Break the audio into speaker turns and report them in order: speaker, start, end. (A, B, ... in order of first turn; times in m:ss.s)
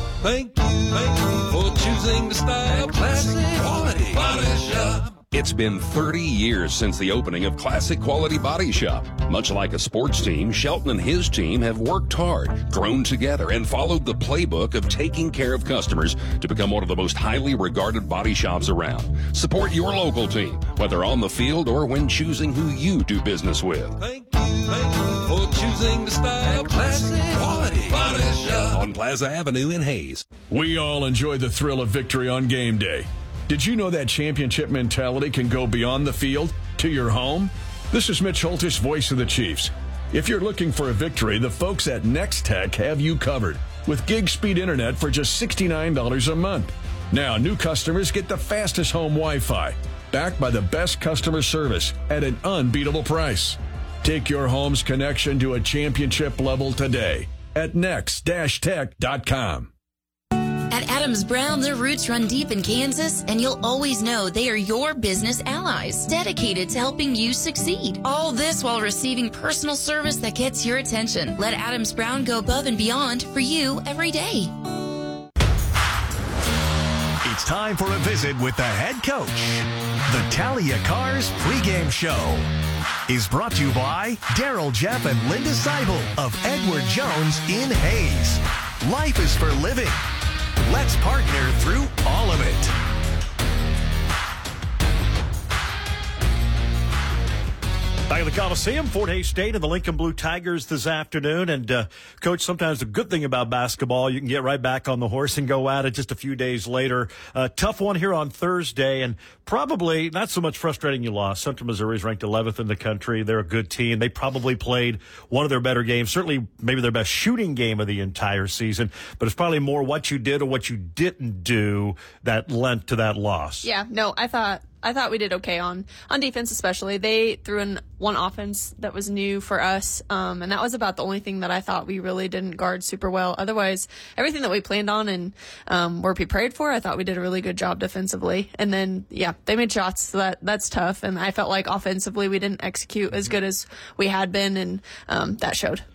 0:00.3-0:05.0 A
0:05.3-0:23.9 B
0:24.3-0:24.7 A
0:25.3-0:28.6 A
0:27.7-0:30.2 B
0:30.5-0:59.7 C
1:00.7-1:14.5 D
1:17.2-1:22.5 E
1:23.1-1:30.0 E
1:30.6-1:32.7 E
1:38.1-2:03.7 F
2:03.6-2:25.8 G